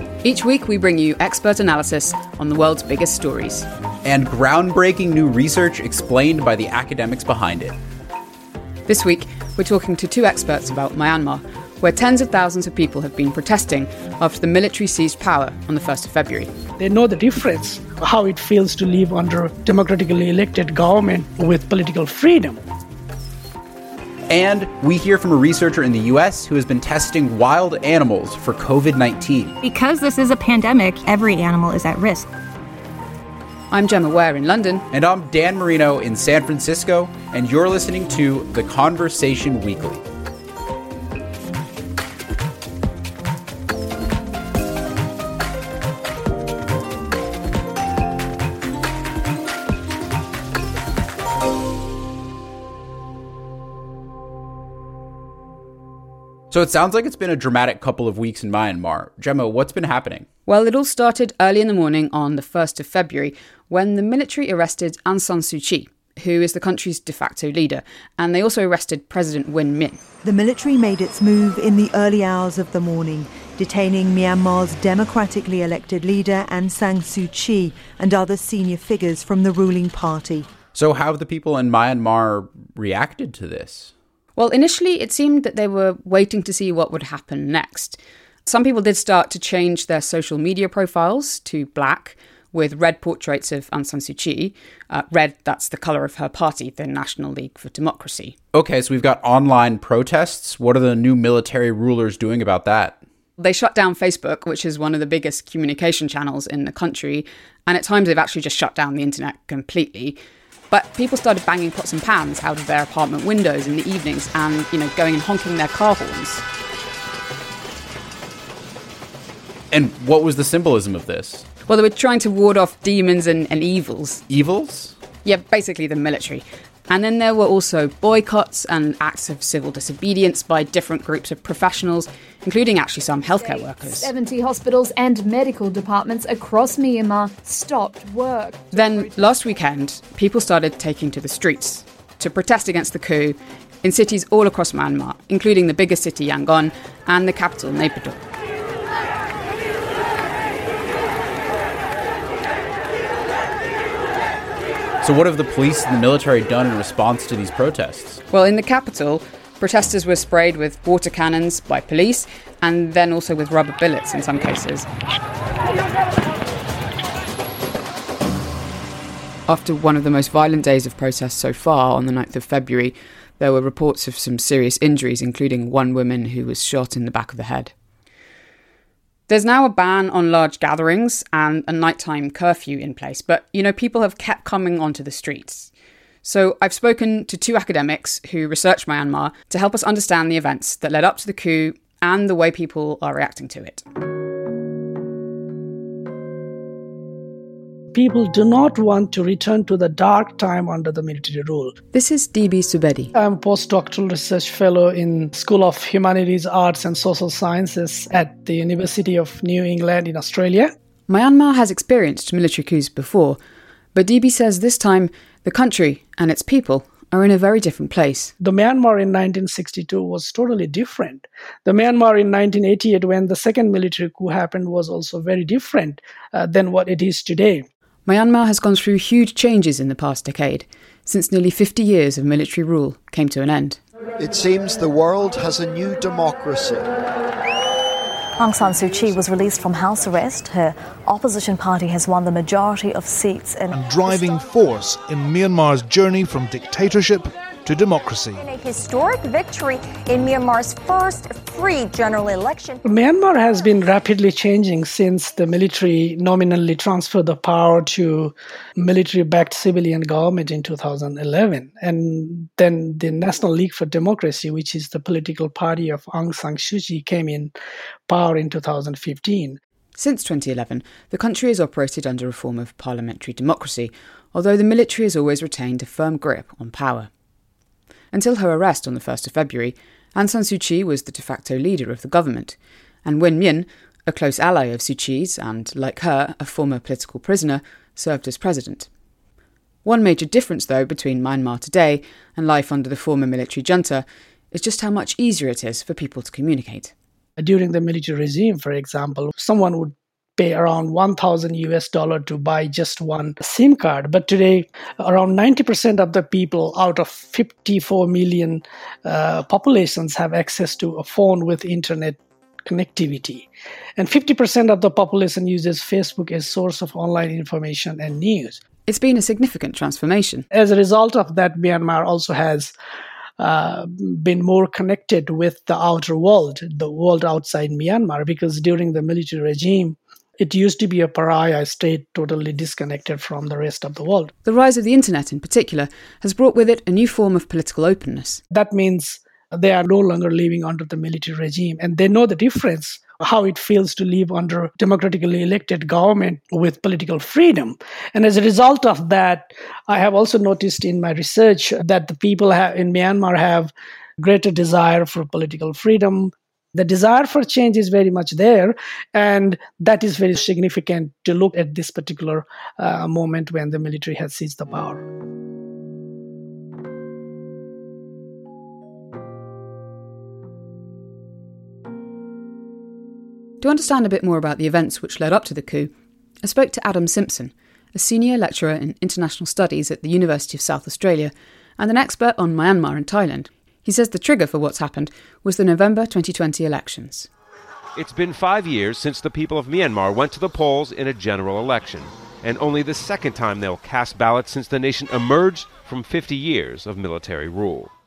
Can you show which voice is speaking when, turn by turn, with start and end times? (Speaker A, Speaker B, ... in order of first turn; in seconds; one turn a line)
Speaker A: 0.2-3.7
Speaker B: 4.0-7.8
Speaker A: 8.9-16.5
Speaker C: 16.8-22.6
Speaker B: 24.3-29.6
Speaker D: 29.6-32.3
Speaker A: 33.7-34.9
Speaker B: 34.9-40.0
Speaker B: 56.5-60.3
Speaker A: 60.5-70.0
Speaker E: 70.2-80.5
Speaker B: 80.7-83.9
Speaker A: 84.4-98.3
Speaker B: 98.5-103.0
Speaker A: 103.4-110.2
Speaker A: 110.7-116.4
Speaker B: 119.7-121.5
Speaker A: 121.7-124.2
Speaker B: 124.3-125.0
Speaker A: 125.2-134.1
Speaker F: 133.3-139.1
Speaker A: 138.7-148.2
Speaker B: 155.0-158.2
Speaker A: 158.3-164.9
Speaker A: 169.5-177.7
Speaker A: 179.3-185.7
Speaker A: 186.2-193.8
Speaker C: 197.9-201.8
Speaker A: 201.9-203.1
Speaker C: 203.2-210.7
Speaker A: 211.1-213.4
Speaker A: 213.9-218.3
Speaker C: 218.4-227.7
Speaker A: 228.1-233.8
Speaker G: 234.2-236.9
Speaker H: 238.4-244.1
Speaker I: 243.7-248.4
Speaker J: 248.3-252.8
Speaker C: 252.8-267.5
Speaker C: 268.1-269.6
Speaker A: 270.0-277.1
Speaker A: 278.1-288.9
Speaker A: 289.9-296.9
Speaker C: 297.4-318.6
Speaker A: 318.9-320.5
Speaker C: 320.5-322.7
Speaker C: 323.4-334.3
Speaker A: 334.4-338.4
Speaker C: 338.5-365.0
Speaker A: 373.6-375.9
Speaker A: 376.4-387.3
Speaker K: 388.0-397.9